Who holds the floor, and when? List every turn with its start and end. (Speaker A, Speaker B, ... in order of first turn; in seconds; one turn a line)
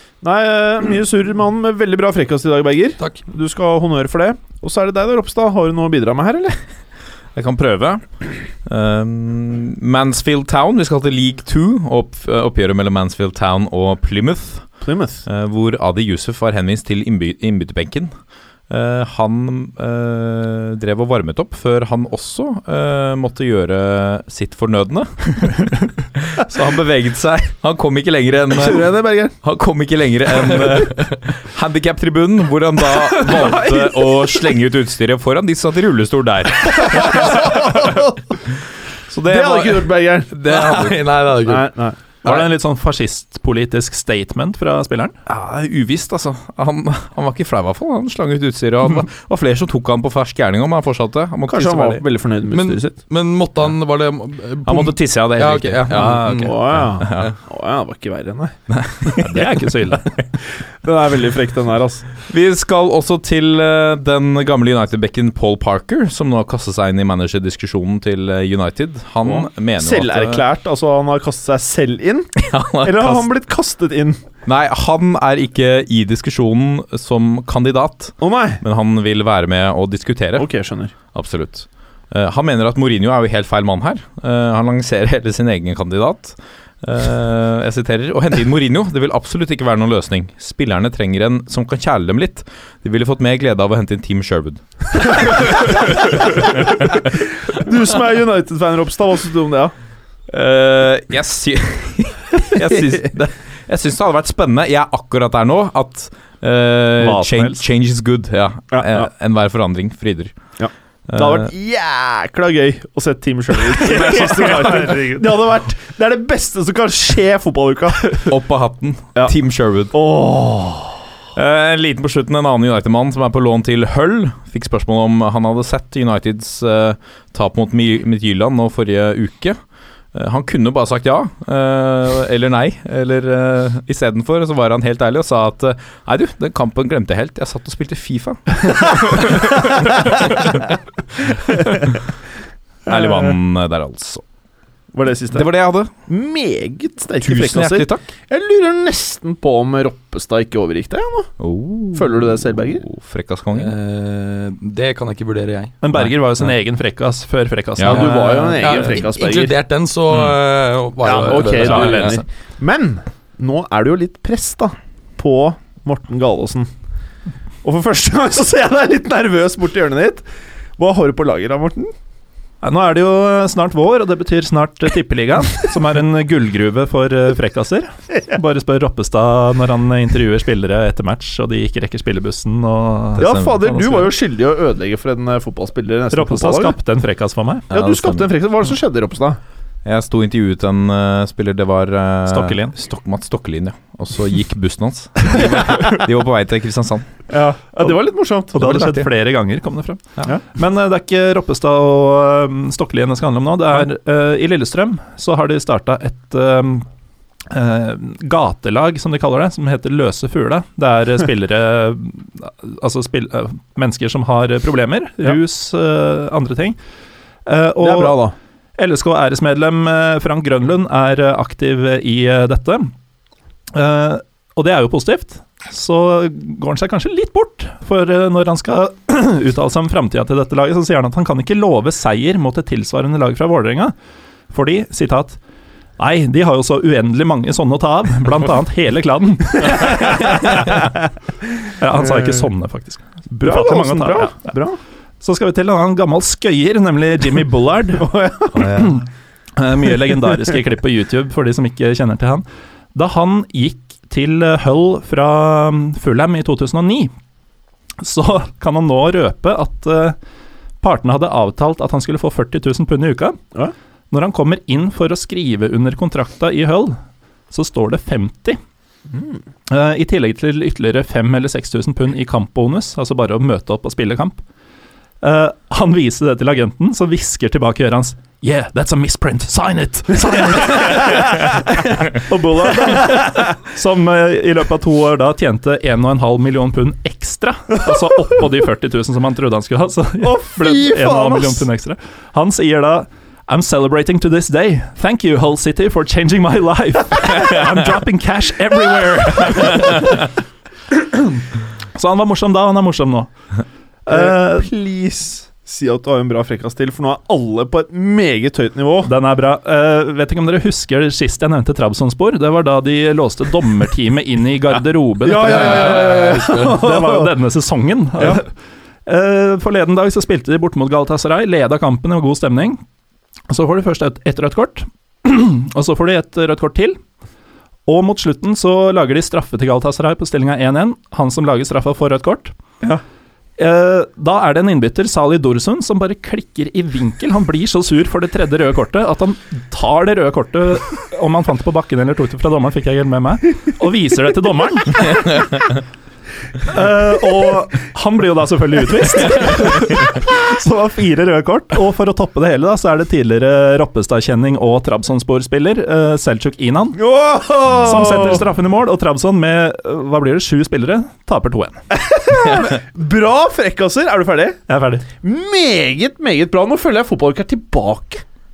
Speaker A: 0.2-6.6
Speaker B: 7.3-18.1
Speaker A: 14.8-15.2
Speaker B: 18.7-38.1
Speaker A: 28.5-29.3
Speaker A: 32.9-34.1
Speaker A: 36.8-38.1
Speaker B: 39.1-41.0
Speaker A: 39.2-42.0
Speaker C: 40.4-41.7
Speaker D: 42.2-45.2
Speaker B: 45.2-52.0
Speaker A: 51.5-53.0
Speaker C: 52.5-57.3
Speaker B: 54.6-57.3
Speaker A: 56.4-58.5
Speaker B: 58.7-60.2
Speaker D: 59.2-60.1
Speaker A: 60.5-62.0
Speaker B: 62.3-70.4
Speaker A: 69.2-74.2
Speaker B: 72.4-73.3
Speaker B: 74.5-80.5
Speaker A: 78.2-78.6
Speaker A: 80.4-80.9
Speaker B: 81.1-97.1
Speaker A: 96.1-99.7
Speaker B: 100.3-110.3
Speaker D: 107.0-107.7
Speaker A: 108.7-109.1
Speaker A: 110.6-118.3
Speaker B: 111.1-111.5
Speaker D: 113.8-115.3
Speaker B: 118.2-119.9
Speaker A: 119.9-121.0
Speaker B: 121.3-129.6
Speaker B: 130.1-140.6
Speaker B: 142.8-144.2
Speaker A: 144.9-145.5
Speaker B: 145.3-145.9
Speaker A: 146.1-151.3
Speaker B: 147.2-148.1
Speaker B: 151.4-153.7
Speaker A: 151.9-152.8
Speaker C: 153.5-155.8
Speaker D: 155.8-158.9
Speaker A: 157.8-159.5
Speaker C: 157.9-162.2
Speaker D: 161.0-162.2
Speaker A: 161.1-166.7
Speaker A: 167.6-170.2
Speaker A: 170.8-171.9
Speaker D: 172.6-184.1
Speaker B: 183.2-183.6
Speaker A: 183.2-186.8
Speaker D: 186.1-187.7
Speaker B: 187.7-188.3
Speaker A: 187.7-189.4
Speaker B: 189.8-197.1
Speaker D: 192.3-192.7
Speaker A: 197.3-198.9
Speaker D: 198.5-206.9
Speaker B: 198.6-199.1
Speaker D: 207.5-216.8
Speaker D: 217.4-218.2
Speaker A: 217.8-218.3
Speaker D: 218.8-222.9
Speaker D: 223.7-233.9
Speaker D: 234.5-235.4
Speaker D: 236.0-241.0
Speaker D: 241.7-244.6
Speaker A: 243.3-244.8
Speaker D: 245.2-257.1
Speaker A: 248.0-248.8
Speaker D: 258.0-260.1
Speaker D: 260.8-263.4
Speaker D: 264.1-267.0
Speaker D: 267.5-268.6
Speaker A: 269.1-269.4
Speaker D: 269.7-274.4
Speaker D: 275.2-300.3
Speaker A: 282.7-283.2
Speaker A: 290.2-291.7
Speaker D: 300.9-301.4
Speaker D: 301.9-303.3
Speaker D: 304.0-304.7
Speaker A: 304.1-309.1
Speaker D: 309.0-318.5
Speaker A: 315.2-317.3
Speaker C: 315.4-316.8
Speaker D: 319.1-322.8
Speaker D: 323.5-327.0
Speaker D: 327.9-332.5
Speaker D: 333.6-345.7
Speaker D: 346.6-357.0
Speaker A: 356.9-358.5
Speaker D: 357.8-361.8
Speaker A: 361.9-364.6
Speaker D: 364.7-365.1
Speaker A: 365.2-368.2